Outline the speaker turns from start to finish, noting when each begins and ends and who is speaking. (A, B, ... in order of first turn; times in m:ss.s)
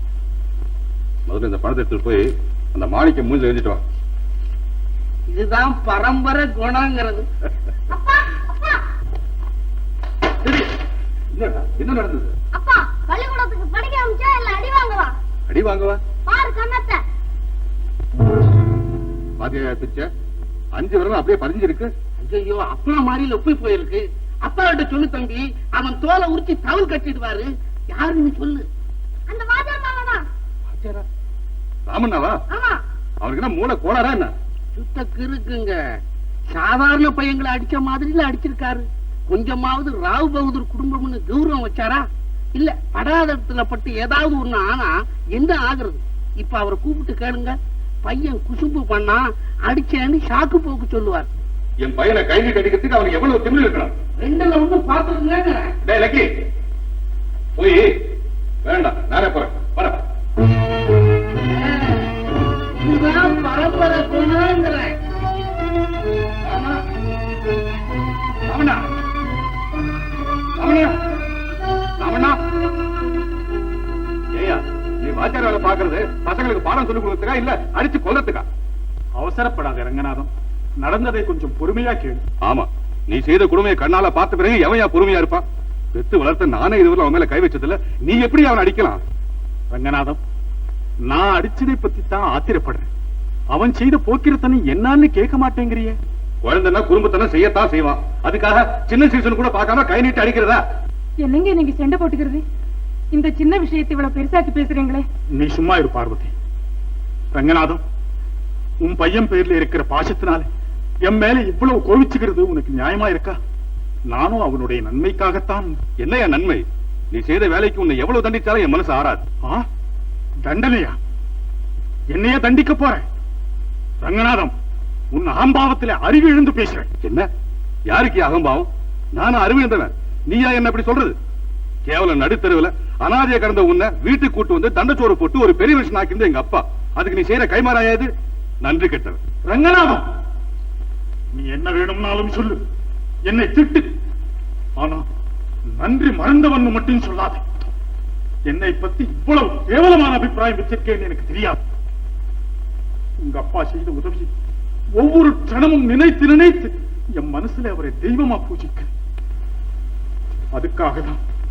0:01.3-0:03.8 A
0:05.3-0:07.3 B
0:07.9-0:08.8 C
0:11.3-0:12.3 A
0:12.6-0:15.1 C
0:15.5-0:16.0 A
0:16.3-0:17.0 C
0:19.4-0:20.1 A
0:20.7-0:21.9 A
0:22.2-0:28.7 B
0:29.3-0:30.2 C
0:30.7-0:31.0 A
0:31.9-0:32.4 A
0:32.5-0:32.8 C
0:33.2-0:34.3 A
0:34.8-0:35.8 B
0:36.5-0:42.0 B
0:42.6-0:51.3 B
0:51.8-0:53.9 A
0:54.2-0:55.7 B
0:55.9-0:56.3 A
0:57.6-0:57.9 A
0:58.6-1:00.0 A
1:01.5-1:02.1 B
1:02.8-1:04.9 B
1:06.5-1:06.8 A
1:08.5-1:08.8 A
1:10.6-1:10.9 A
1:12.0-1:12.4 A
1:14.4-1:18.4 A
1:19.2-1:20.3 D
1:20.8-1:22.2 D
1:22.4-1:29.0 A
1:29.7-1:30.2 D
1:31.1-1:32.9 D
1:33.5-1:36.0 D
1:36.4-1:40.6 A
1:41.2-1:42.4 E
1:43.1-1:45.0 E
1:45.4-1:46.3 D
1:47.3-1:47.8 D
1:48.8-1:50.5 D
1:51.0-1:53.4 D
1:54.1-1:55.8 D
1:56.0-1:59.2 A
2:00.4-2:01.0 D
2:02.1-2:03.0 D
2:04.0-2:04.5 D
2:05.1-2:06.9 D
2:07.9-2:11.2 A
2:11.9-2:18.1 A
2:18.6-2:19.2 A
2:19.4-2:20.1 D
2:21.3-2:22.6 D
2:23.3-2:23.9 D
2:24.8-2:25.1 D
2:25.7-2:27.4 D
2:28.5-2:31.6 D
2:33.2-2:34.3 D
2:35.0-2:38.9 D
2:40.5-2:41.2 D